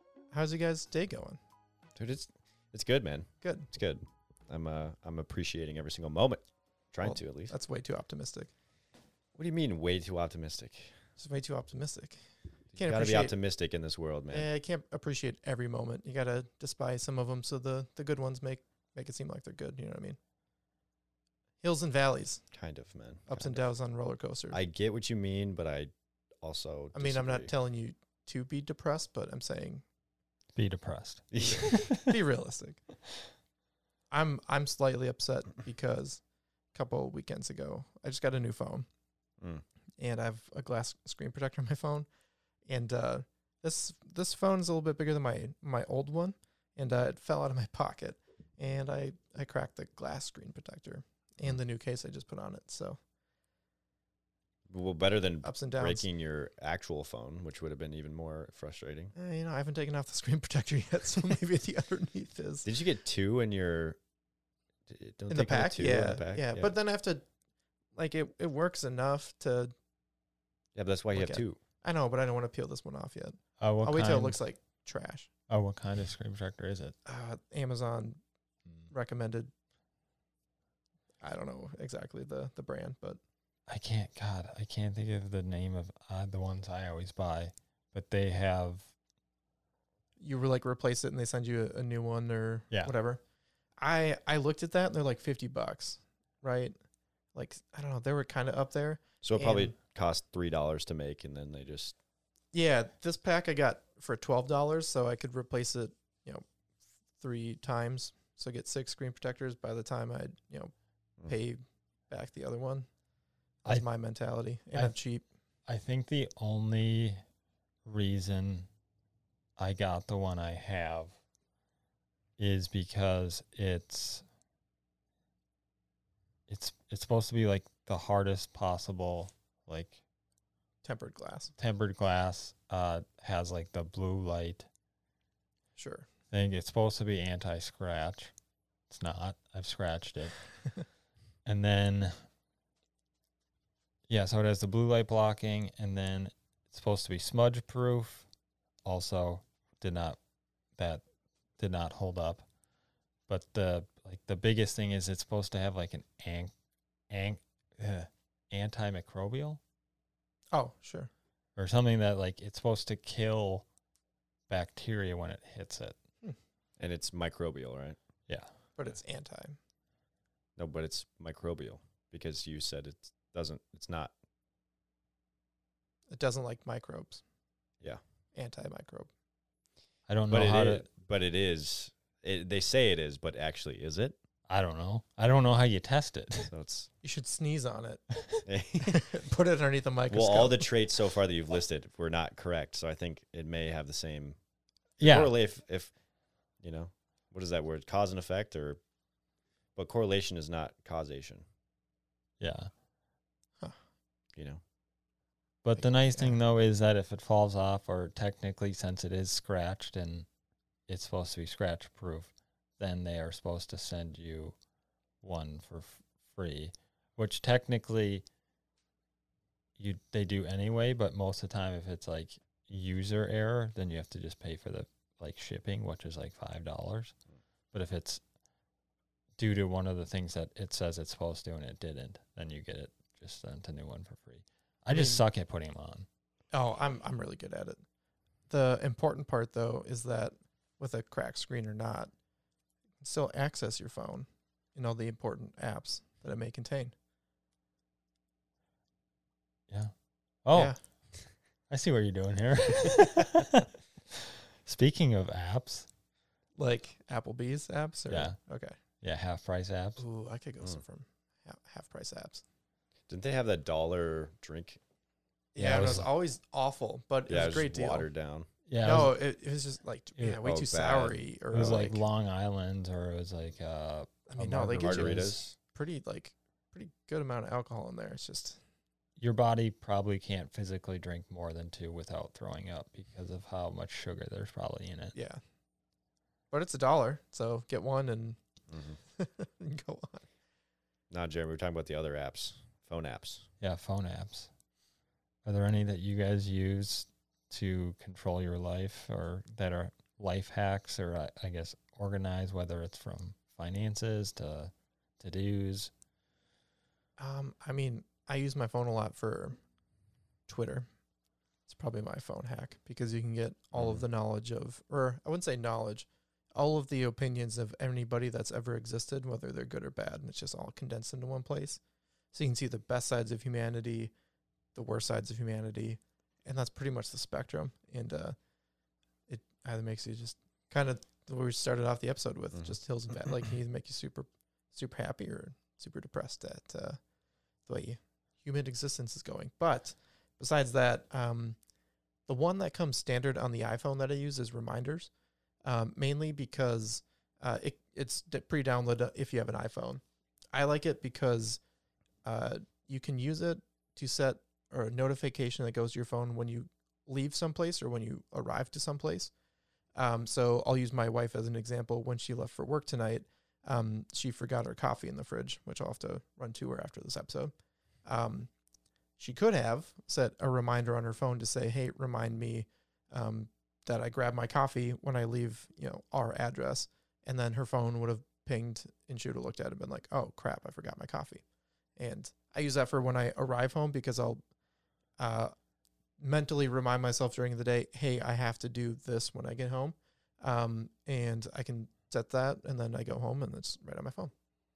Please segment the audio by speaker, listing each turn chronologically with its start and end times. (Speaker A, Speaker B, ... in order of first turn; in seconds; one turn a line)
Speaker A: 0.3-1.4
Speaker B: 1.9-7.5
Speaker A: 3.4-3.7
Speaker A: 7.0-8.5
Speaker B: 9.3-11.0
Speaker A: 11.2-12.2
Speaker A: 12.7-13.3
Speaker B: 12.7-14.5
Speaker A: 14.3-20.2
Speaker A: 21.6-22.4
Speaker B: 22.5-23.7
Speaker A: 23.3-24.6
Speaker B: 24.5-27.5
Speaker A: 26.9-29.8
Speaker C: 30.6-32.0
Speaker B: 31.3-31.7
Speaker A: 31.4-32.8
Speaker A: 34.1-36.2
Speaker A: 36.7-38.9
Speaker A: 40.0-42.1
Speaker A: 42.6-53.0
Speaker B: 54.7-59.1
Speaker A: 55.4-56.0
Speaker A: 59.1-62.6
Speaker B: 62.6-64.0
Speaker B: 64.9-66.7
Speaker A: 65.3-67.2
Speaker A: 67.9-69.7
Speaker B: 70.7-71.6
Speaker A: 71.1-75.3
Speaker C: 73.6-74.4
Speaker C: 75.5-77.0
Speaker A: 77.0-78.2
Speaker A: 78.9-79.5
Speaker A: 81.2-83.2
Speaker C: 83.7-88.9
Speaker A: 90.2-93.2
Speaker A: 93.8-96.8
Speaker A: 97.3-99.7
Speaker B: 99.2-102.0
Speaker A: 102.5-106.4
Speaker A: 107.2-110.7
Speaker A: 111.2-112.9
Speaker A: 113.6-115.2
Speaker C: 115.7-117.2
Speaker C: 117.8-118.7
Speaker C: 119.6-121.1
Speaker C: 122.4-124.2
Speaker C: 126.5-130.0
Speaker A: 130.8-131.5
Speaker C: 131.6-134.7
Speaker A: 135.8-136.1
Speaker C: 136.3-138.3
Speaker C: 138.9-140.6
Speaker C: 141.4-142.2
Speaker C: 144.1-148.3
Speaker C: 148.8-150.2
Speaker C: 150.8-151.0
Speaker C: 151.6-152.4
Speaker C: 153.3-156.5
Speaker C: 157.1-159.6
Speaker A: 160.5-161.1
Speaker C: 161.6-163.6
Speaker C: 164.5-165.9
Speaker B: 166.8-168.0
Speaker A: 168.8-169.6
Speaker B: 170.6-174.1
Speaker A: 176.1-177.2
Speaker A: 178.3-179.1
Speaker C: 180.1-180.8
Speaker B: 180.3-184.2
Speaker C: 184.5-186.5
Speaker B: 186.5-186.9
Speaker A: 187.0-188.1
Speaker B: 188.4-189.0
Speaker A: 188.8-190.7
Speaker B: 190.1-194.4
Speaker B: 195.0-195.9
Speaker C: 195.0-195.3
Speaker B: 196.6-198.8
Speaker B: 199.8-201.4
Speaker C: 202.4-202.7
Speaker B: 204.3-204.6
Speaker C: 205.6-210.2
Speaker A: 205.8-206.4
Speaker C: 210.9-214.6
Speaker C: 215.2-218.2
Speaker C: 219.8-227.1
Speaker C: 227.7-228.2
Speaker C: 229.4-236.1
Speaker A: 234.9-235.2
Speaker A: 236.5-237.8
Speaker A: 238.5-242.1
Speaker A: 243.0-246.9
Speaker C: 250.4-250.9
Speaker C: 251.7-253.7
Speaker C: 254.6-255.9
Speaker A: 256.6-258.8
Speaker C: 258.1-258.4
Speaker C: 259.0-260.0
Speaker A: 260.0-262.4
Speaker B: 263.1-264.8
Speaker A: 265.5-268.1
Speaker C: 265.6-266.1
Speaker B: 267.3-268.5
Speaker C: 268.7-269.1
Speaker A: 268.8-272.0
Speaker B: 270.4-271.2
Speaker C: 271.5-275.4
Speaker A: 274.3-278.6
Speaker B: 274.8-275.4
Speaker C: 279.2-285.1
Speaker A: 285.1-285.4
Speaker A: 286.5-288.4
Speaker B: 288.7-289.0
Speaker A: 289.1-290.2
Speaker B: 291.1-293.5
Speaker C: 293.6-294.5
Speaker C: 295.4-305.9
Speaker A: 307.2-309.6
Speaker A: 310.5-310.9
Speaker A: 311.7-321.8
Speaker B: 313.7-314.0
Speaker A: 322.3-324.1
Speaker A: 324.7-328.4
Speaker A: 329.3-337.0
Speaker A: 337.6-341.6
Speaker A: 342.3-345.1
Speaker A: 345.6-350.0
Speaker A: 350.5-351.6
Speaker A: 352.2-359.3
Speaker A: 359.9-367.5
Speaker A: 368.0-368.5
Speaker A: 369.2-381.4
Speaker A: 382.0-384.4
Speaker A: 385.2-385.5
Speaker A: 386.2-394.3